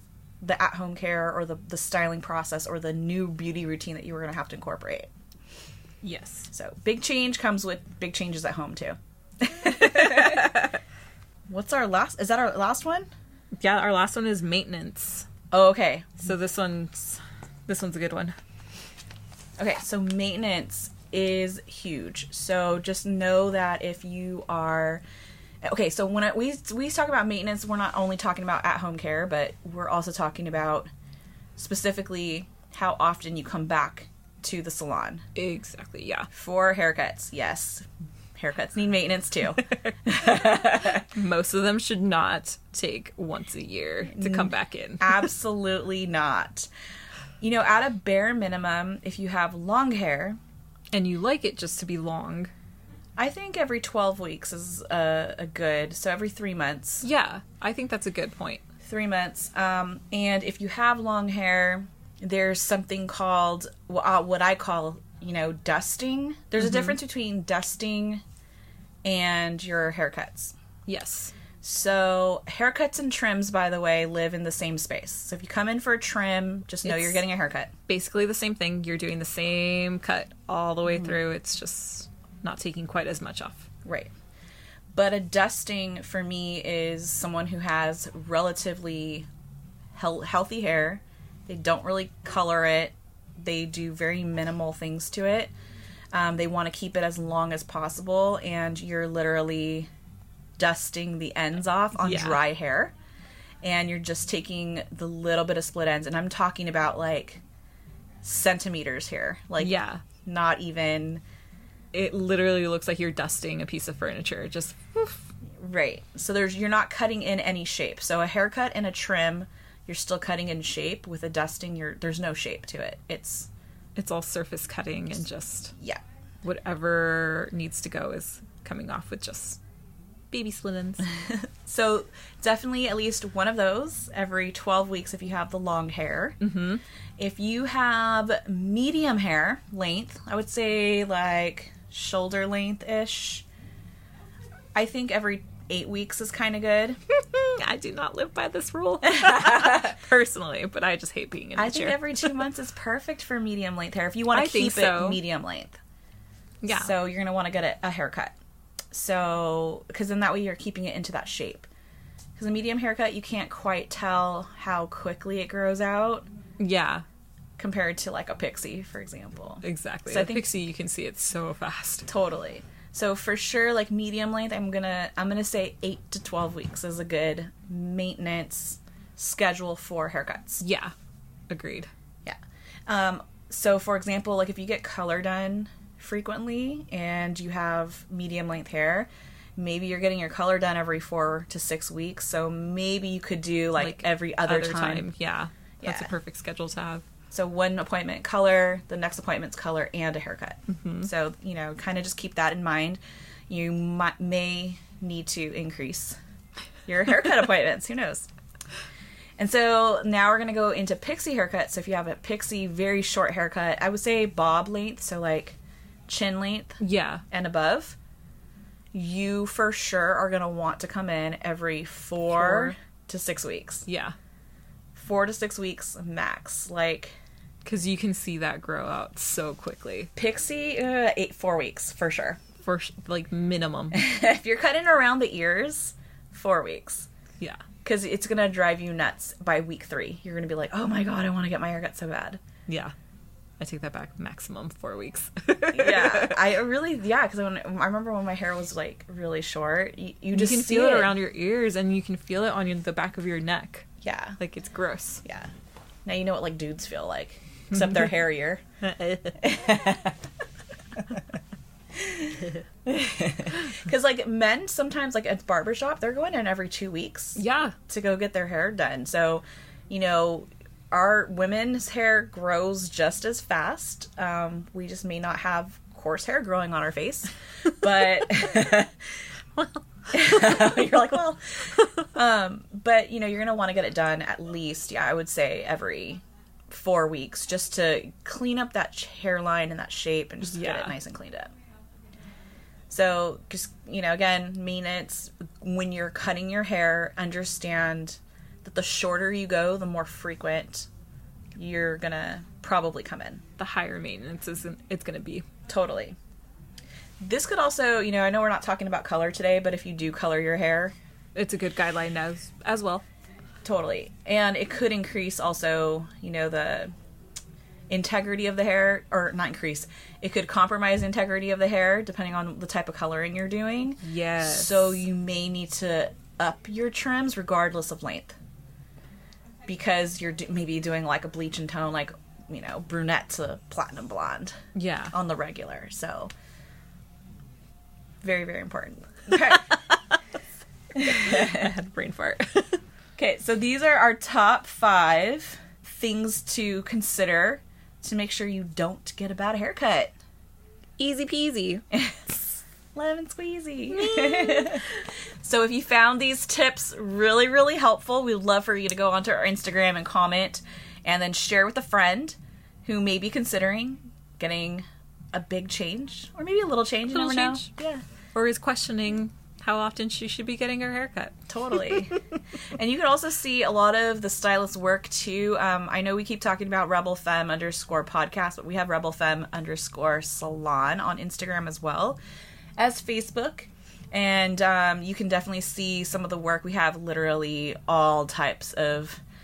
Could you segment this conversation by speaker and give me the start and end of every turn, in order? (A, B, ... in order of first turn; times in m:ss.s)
0:00.4-0:05.1 A
0:06.0-0:06.5 B
0:06.5-0:10.6 A
0:09.8-0:10.7 B
0:11.5-0:13.1 A
0:13.6-0:15.3 B
0:15.5-0:16.2 A
0:16.2-0:18.4 B
0:19.6-0:25.0 A
0:25.6-0:30.9 A
0:31.6-0:35.2 A
0:35.3-0:36.3 B
0:36.3-0:37.8 A
0:38.4-0:41.0 A
0:41.0-0:45.3 B
0:44.1-0:46.7 A
0:47.4-0:50.4 A
0:50.9-0:52.5 B
0:53.2-0:57.0 A
0:57.0-0:58.6 B
0:58.8-1:08.2 A
1:06.6-1:07.0 B
1:09.0-1:10.5 A
1:10.8-1:11.3 B
1:11.6-1:17.7 A
1:16.8-1:17.2 B
1:17.9-1:23.7 B
1:23.8-1:24.1 A
1:24.9-1:29.3 A
1:29.9-1:35.5 A
1:36.1-1:39.9 A
1:40.6-1:42.9 A
1:42.0-1:42.4 B
1:43.6-1:47.4 A
1:48.2-1:51.2 A
1:49.6-1:50.0 B
1:51.9-1:55.2 B
1:55.6-2:03.5 A
2:03.9-2:05.7 B
2:06.4-2:09.6 B
2:10.3-2:11.1 B
2:11.3-2:16.4 A
2:16.4-2:16.8 B
2:17.2-2:23.4 A
2:24.7-2:27.0 A
2:27.1-2:32.4 B
2:29.0-2:29.9 A
2:31.6-2:35.8 A
2:34.3-2:35.2 B
2:36.6-2:36.9 B
2:36.7-2:38.3 A
2:38.9-2:41.7 A
2:42.4-2:46.3 A
2:46.6-2:47.0 B
2:47.6-2:50.5 A
2:49.6-2:52.1 B
2:52.1-3:00.6 A
3:00.6-3:00.9 B
3:01.5-3:01.9 B
3:02.2-3:15.1 A
3:13.8-3:17.0 B
3:15.8-3:16.1 A
3:17.3-3:26.2 A
3:20.7-3:21.1 B
3:26.9-3:28.3 A
3:29.4-3:35.6 A
3:36.1-3:38.0 A
3:36.8-3:37.2 B
3:38.9-3:43.8 A
3:42.3-3:42.7 B
3:43.8-3:44.1 B
3:44.9-3:47.2 A
3:47.6-3:50.1 B
3:50.2-3:52.4 A
3:52.6-3:54.0 B
3:53.9-3:57.1 A
3:57.8-4:02.4 A
4:02.7-4:02.9 B
4:03.6-4:06.4 B
4:05.7-4:11.1 A
4:10.3-4:15.2 B
4:14.0-4:14.4 A
4:15.2-4:15.5 A
4:16.0-4:18.6 A
4:17.7-4:18.1 B
4:18.8-4:19.5 B
4:19.4-4:20.2 A
4:22.0-4:38.9 A
4:27.4-4:27.8 B
4:40.1-4:51.5 A
4:50.4-4:50.9 B
4:52.9-5:00.9 A
5:01.6-5:03.4 A
5:03.6-5:05.4 B
5:05.7-5:06.2 A
5:07.2-5:10.9 A
5:11.3-5:13.0 B
5:13.6-5:16.9 A
5:17.9-5:28.4 A
5:24.0-5:25.0 B
5:29.7-5:34.6 A
5:34.7-5:35.1 B
5:35.1-5:36.3 A
5:38.2-5:39.8 A
5:39.4-5:40.0 B
5:40.9-5:41.7 A
5:41.0-5:42.8 B
5:43.2-5:50.1 A
5:51.0-5:51.8 B
5:51.9-6:08.0 A
5:53.9-5:54.8 B
6:07.1-6:12.0 B
6:11.5-6:12.2 A
6:12.8-6:22.2 A
6:22.8-6:29.2 A